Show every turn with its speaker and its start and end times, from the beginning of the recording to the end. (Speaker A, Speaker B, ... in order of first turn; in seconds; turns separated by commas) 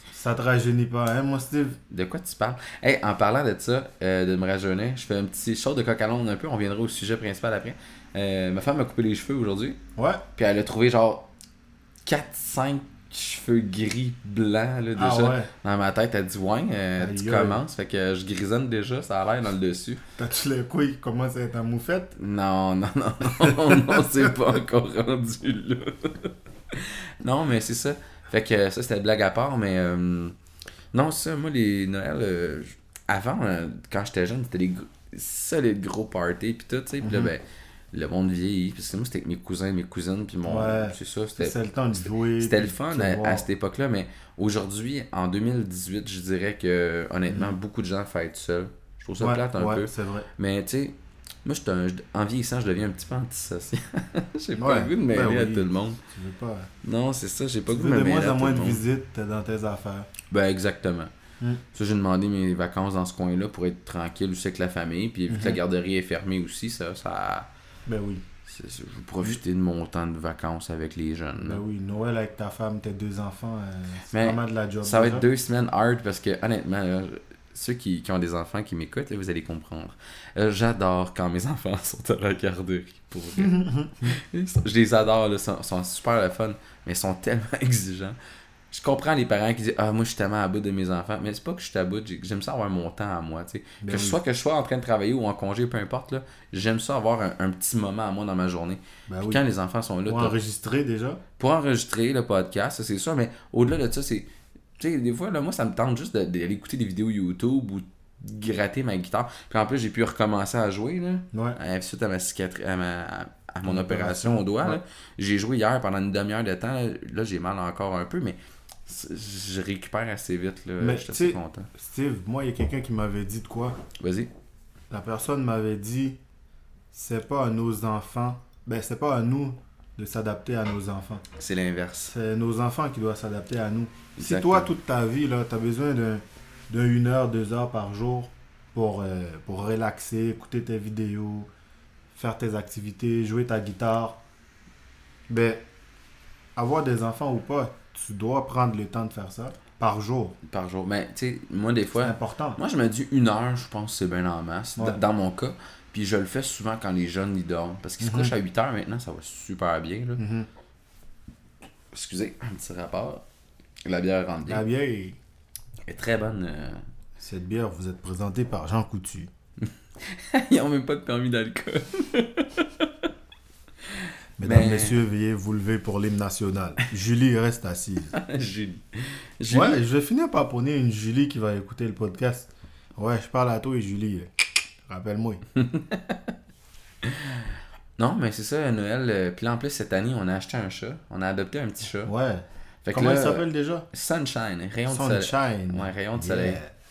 Speaker A: 0.1-1.8, Speaker B: 1.9-9.8, Speaker A: 10.0-10.2, Speaker B: 10.4-11.3, Speaker B: 12.1-20.0, Speaker A: 14.9-15.5, Speaker A: 17.0-17.6, Speaker A: 20.2-22.1, Speaker B: 22.2-30.4, Speaker A: 23.3-24.3, Speaker B: 30.9-41.6, Speaker A: 37.0-37.3, Speaker A: 40.4-43.4, Speaker B: 42.3-56.0, Speaker A: 49.2-50.3, Speaker A: 54.6-56.7, Speaker B: 56.8-58.8, Speaker A: 57.7-60.1, Speaker B: 60.3-61.1, Speaker B: 61.7-67.5, Speaker A: 65.3-65.6, Speaker A: 67.9-68.2, Speaker B: 68.5-71.6, Speaker A: 71.4-75.2, Speaker B: 74.1-88.2, Speaker A: 83.4-84.2, Speaker B: 88.7-100.4, Speaker A: 93.8-94.2, Speaker A: 99.1-99.4, Speaker A: 100.1-101.2, Speaker B: 101.4-121.7, Speaker A: 111.3-111.6, Speaker A: 113.7-114.8, Speaker A: 120.8-123.8, Speaker B: 124.0-124.3, Speaker A: 124.9-126.2, Speaker A: 126.9-131.2, Speaker B: 131.4-132.2, Speaker A: 132.1-141.5, Speaker B: 134.2-134.7, Speaker A: 142.1-144.2, Speaker A: 145.3-145.7, Speaker A: 146.6-150.4, Speaker B: 150.5-160.2, Speaker A: 152.0-152.6, Speaker A: 158.0-158.3, Speaker A: 160.2-160.5, Speaker B: 161.9-163.2, Speaker B: 163.8-164.6, Speaker A: 164.5-165.2, Speaker B: 165.9-166.8, Speaker A: 167.2-169.3, Speaker B: 170.0-172.9, Speaker B: 173.9-175.0, Speaker A: 174.4-178.1, Speaker B: 178.1-179.8, Speaker A: 179.5-184.3, Speaker A: 184.9-185.4, Speaker B: 185.6-186.2, Speaker B: 187.0-187.4, Speaker B: 188.0-192.1, Speaker A: 192.0-193.9, Speaker B: 192.8-196.6, Speaker A: 194.9-196.7